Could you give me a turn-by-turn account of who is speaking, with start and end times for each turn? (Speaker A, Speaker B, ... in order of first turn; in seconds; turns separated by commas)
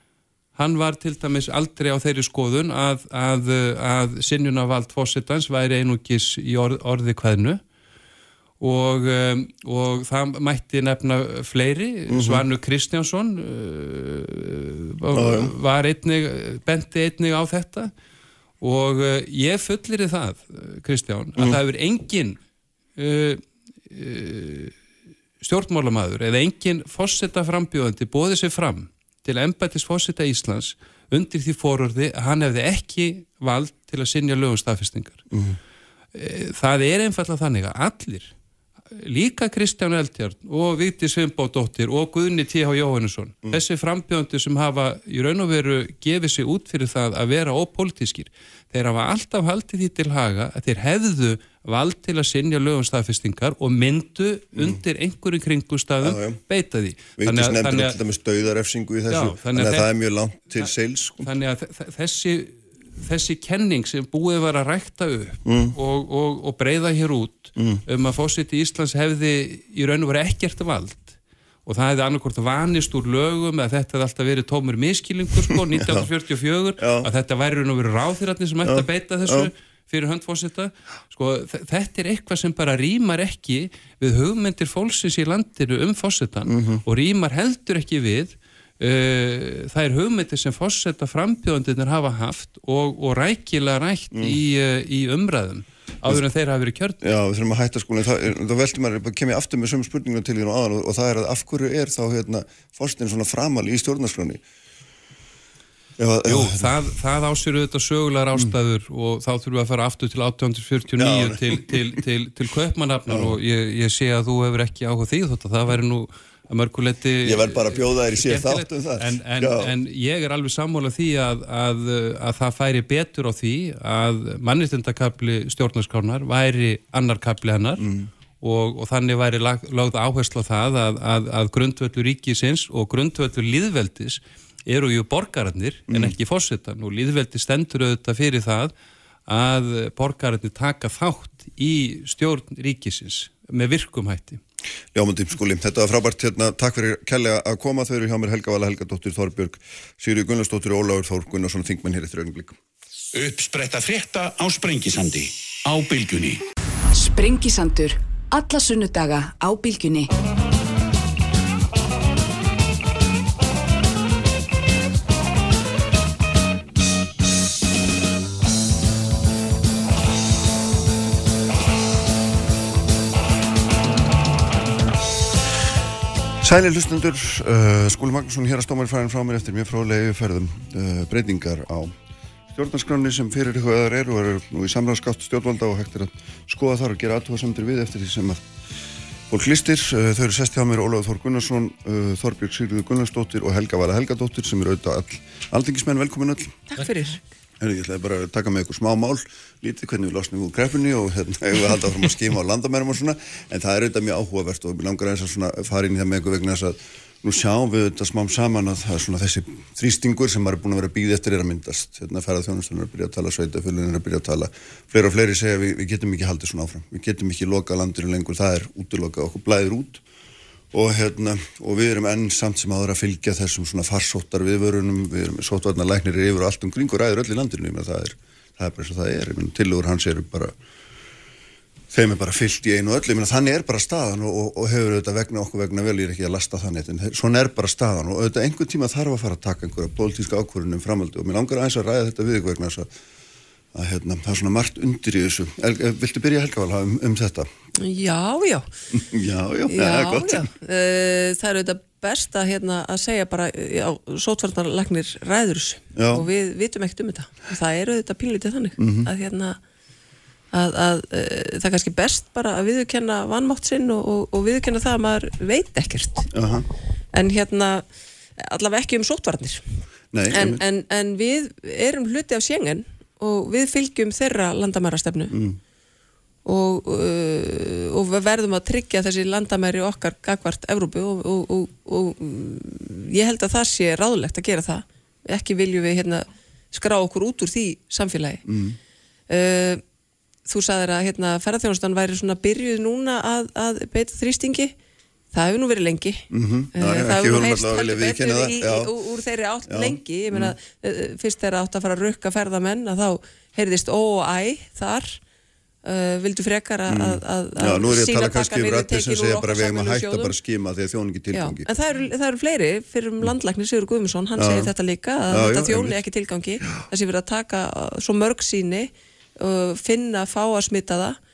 Speaker A: 0.6-7.6, Speaker A: 8.6-17.9, Speaker B: 12.1-12.4, Speaker B: 15.1-15.5, Speaker A: 18.6-22.4, Speaker A: 22.9-24.7, Speaker A: 25.4-35.3, Speaker B: 35.3-35.6, Speaker A: 36.1-38.3, Speaker A: 38.9-58.0, Speaker B: 56.0-56.4, Speaker B: 57.2-61.3, Speaker A: 59.1-59.9, Speaker A: 60.6-97.0, Speaker B: 65.5-65.7, Speaker B: 67.5-67.8, Speaker B: 75.5-76.1, Speaker B: 76.8-77.1, Speaker B: 78.6-79.5, Speaker B: 86.5-86.8, Speaker B: 97.0-104.4, Speaker B: 106.0-106.7, Speaker A: 106.3-127.9, Speaker B: 111.0-112.0, Speaker B: 113.1-113.3, Speaker B: 117.2-119.7, Speaker B: 127.8-128.1, Speaker A: 128.4-138.7, Speaker A: 139.3-144.4, Speaker B: 144.9-152.6, Speaker C: 153.1-156.4, Speaker D: 156.9-160.1, Speaker B: 176.4-181.9, Speaker B: 182.5-188.4, Speaker B: 189.3-196.6, Speaker E: 196.7-197.2, Speaker B: 197.6-220.0, Speaker B: 220.7-230.5, Speaker B: 231.9-242.9, Speaker B: 243.7-247.5, Speaker E: 247.8-248.7, Speaker B: 248.9-250.5, Speaker E: 249.7-259.6, Speaker B: 255.9-256.2, Speaker B: 258.8-259.1, Speaker E: 260.5-266.3, Speaker B: 266.3-266.6, Speaker E: 267.1-267.9, Speaker E: 268.4-269.6, Speaker B: 270.1-270.6, Speaker E: 270.3-275.4, Speaker B: 275.3-275.6, Speaker E: 276.4-288.4, Speaker B: 288.5-288.8, Speaker E: 289.3-289.8, Speaker E: 290.5-294.7, Speaker E: 295.3-296.2, Speaker B: 296.3-298.9, Speaker E: 296.7-305.2, Speaker B: 299.7-300.5, Speaker E: 305.8-310.3, Speaker B: 306.9-311.7, Speaker E: 311.3-321.2, Speaker B: 314.4-314.7, Speaker B: 315.3-316.0